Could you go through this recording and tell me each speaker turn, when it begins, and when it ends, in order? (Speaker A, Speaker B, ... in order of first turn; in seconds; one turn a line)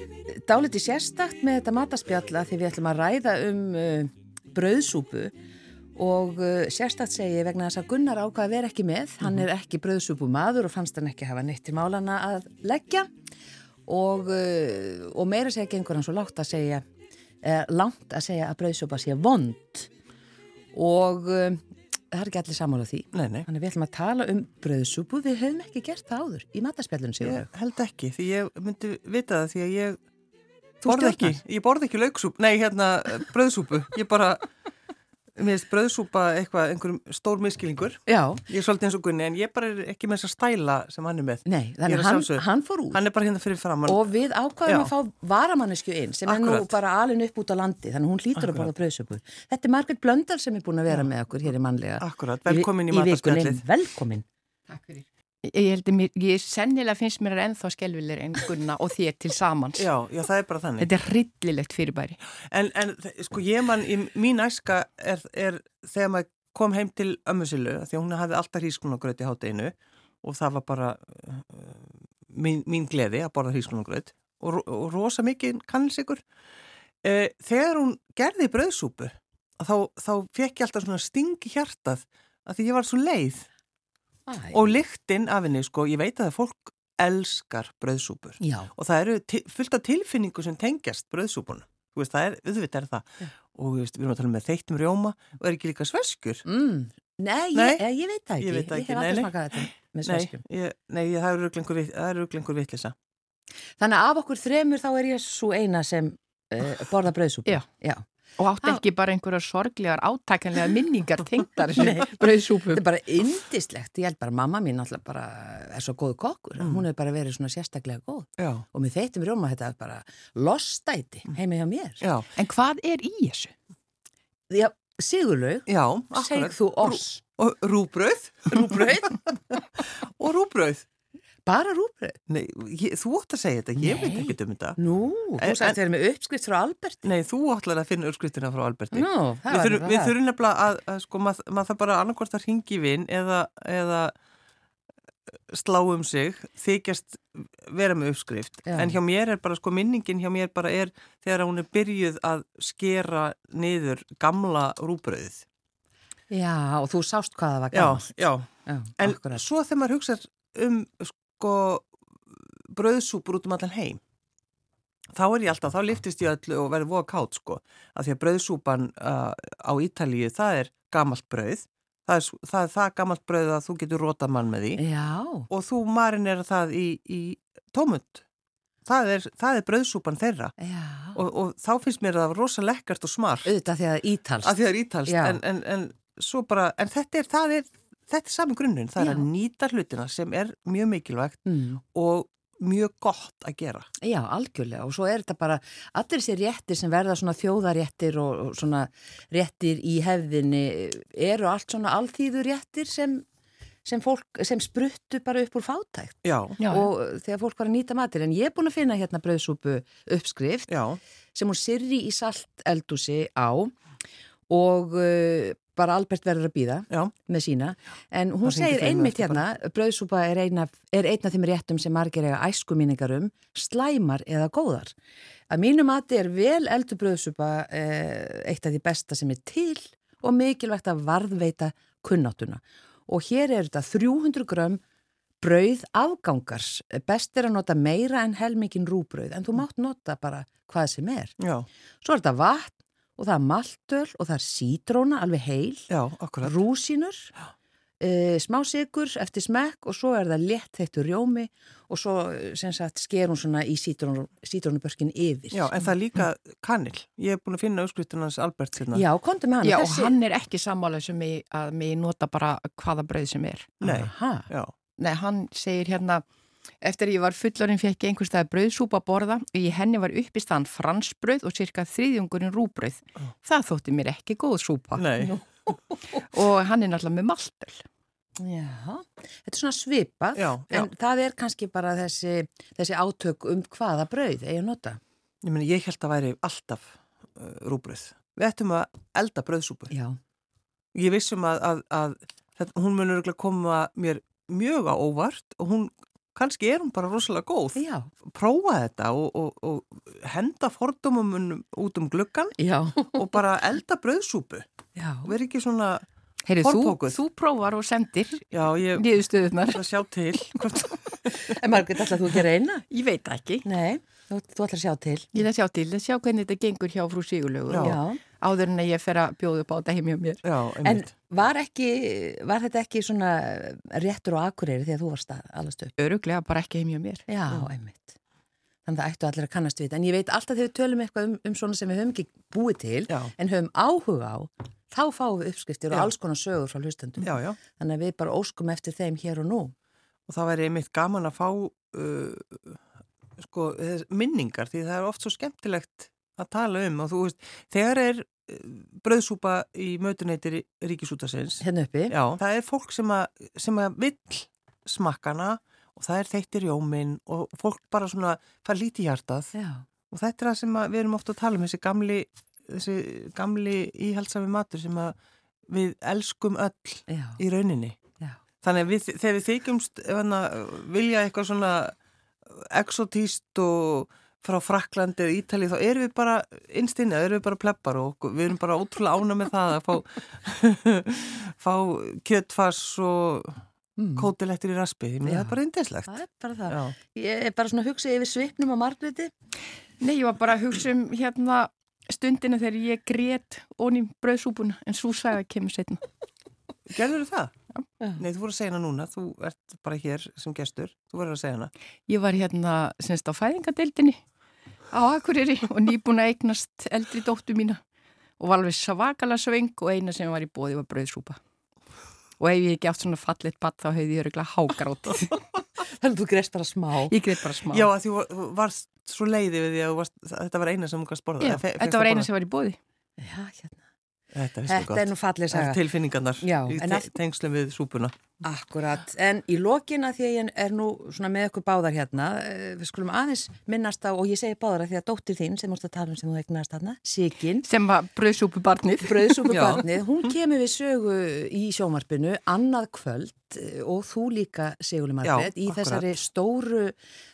Speaker A: 0.3-5.3
Speaker A: 6.0-13.1
Speaker A: 13.9-16.8
Speaker A: 17.4-19.9
Speaker A: 20.7-27.5
Speaker B: 23.1-23.5
Speaker B: 27.2-30.0
Speaker A: 30.8-31.4
Speaker B: 30.8-34.5
Speaker B: 35.4-44.1
Speaker A: 38.1-38.4
Speaker A: 41.4-43.0
Speaker A: 43.9-54.2
Speaker B: 44.6-44.9
Speaker B: 46.2-46.7
Speaker B: 52.0-53.6
Speaker C: 54.7-59.9
Speaker B: 59.8-60.9
Speaker C: 60.8-62.2
Speaker B: 62.5-76.2
Speaker B: 77.0-83.5
Speaker A: 84.3-84.8
Speaker B: 84.5-96.4
Speaker A: 88.4-88.7
Speaker A: 96.4-100.4
Speaker B: 97.5-97.8
Speaker B: 98.4-102.9
Speaker A: 103.8-108.0
Speaker C: 108.4-112.8
Speaker A: 111.8-122.0
Speaker B: 118.4-118.6
Speaker B: 122.0-122.3
Speaker C: 122.3-123.5
Speaker A: 124.5-127.2
Speaker B: 125.7-130.8
Speaker A: 128.5-129.2
Speaker A: 131.4-132.2
Speaker B: 132.3-134.8
Speaker A: 133.8-137.0
Speaker B: 135.4-135.8
Speaker B: 137.0-144.1
Speaker A: 138.9-140.1
Speaker B: 145.5-155.4
Speaker A: 148.7-149.0
Speaker A: 156.3-158.1
Speaker B: 157.7-158.5
Speaker A: 158.7-159.4
Speaker B: 159.0-164.0
Speaker B: 165.1-174.8
Speaker A: 174.8-175.5
Speaker B: 175.5-178.2
Speaker B: 178.8-180.5
Speaker A: 180.6-181.2
Speaker B: 181.1-183.5
Speaker A: 183.4-185.4
Speaker B: 184.4-193.9
Speaker A: 189.0-189.2
Speaker A: 191.4-191.8
Speaker A: 194.0-203.2
Speaker A: 203.8-210.7
Speaker B: 206.2-206.6
Speaker C: 206.6-206.9
Speaker B: 210.7-211.0
Speaker A: 211.3-213.7
Speaker A: 214.5-224.9
Speaker B: 218.4-219.4
Speaker A: 225.5-234.8
Speaker A: 235.4-241.3
Speaker B: 241.4-241.7
Speaker A: 242.0-245.9
Speaker B: 245.9-246.5
Speaker A: 246.4-247.3
Speaker A: 248.0-255.8
Speaker B: 255.5-259.0
Speaker A: 258.9-260.1
Speaker C: 259.6-263.8
Speaker B: 263.8-264.7
Speaker A: 263.8-264.5
Speaker C: 265.0-266.2
Speaker C: 266.8-275.1
Speaker B: 274.9-275.4
Speaker A: 275.2-276.2
Speaker C: 276.2-277.8
Speaker A: 278.4-285.0
Speaker B: 280.4-280.9
Speaker B: 285.4-289.9
Speaker A: 289.9-290.2
Speaker B: 290.9-302.6
Speaker A: 297.8-298.1
Speaker A: 302.6-303.4
Speaker B: 303.1-304.7
Speaker A: 304.9-305.3
Speaker B: 305.2-306.1
Speaker C: 306.4-309.9
Speaker B: 306.6-307.2
Speaker B: 308.5-309.1
Speaker B: 309.7-311.6
Speaker A: 311.4-312.9
Speaker C: 312.9-313.6
Speaker A: 313.6-315.3
Speaker C: 315.3-320.4
Speaker B: 317.7-318.0
Speaker A: 317.8-318.2
Speaker B: 320.4-321.1
Speaker A: 320.8-325.9
Speaker C: 326.0-327.7
Speaker A: 327.3-328.1
Speaker A: 328.9-339.7
Speaker B: 337.2-337.6
Speaker B: 340.3-342.8
Speaker B: 343.4-359.5
Speaker A: 351.6-352.1
Speaker A: 359.5-359.9
Speaker B: 360.1-365.1
Speaker B: 365.7-368.0
Speaker A: 367.1-367.4
Speaker B: 368.6-371.9
Speaker B: 372.5-383.6
Speaker A: 384.0-384.3
Speaker B: 384.1-386.1
Speaker A: 385.2-389.3
Speaker B: 386.7-386.9
Speaker C: 390.0-396.0
Speaker B: 396.9-397.5
Speaker B: 398.2-401.7
Speaker C: 402.1-404.2
Speaker C: 404.9-407.8
Speaker C: 408.4-411.4
Speaker C: 412.4-415.4
Speaker A: 415.8-417.1
Speaker C: 417.1-417.9
Speaker B: 417.6-422.3
Speaker C: 421.4-422.8
Speaker A: 423.2-423.8
Speaker B: 424.3-428.1
Speaker A: 424.7-425.8
Speaker A: 426.4-427.1
Speaker A: 428.4-437.7
Speaker C: 437.6-439.6
Speaker A: 439.0-446.9
Speaker B: 439.5-439.8
Speaker B: 445.2-446.1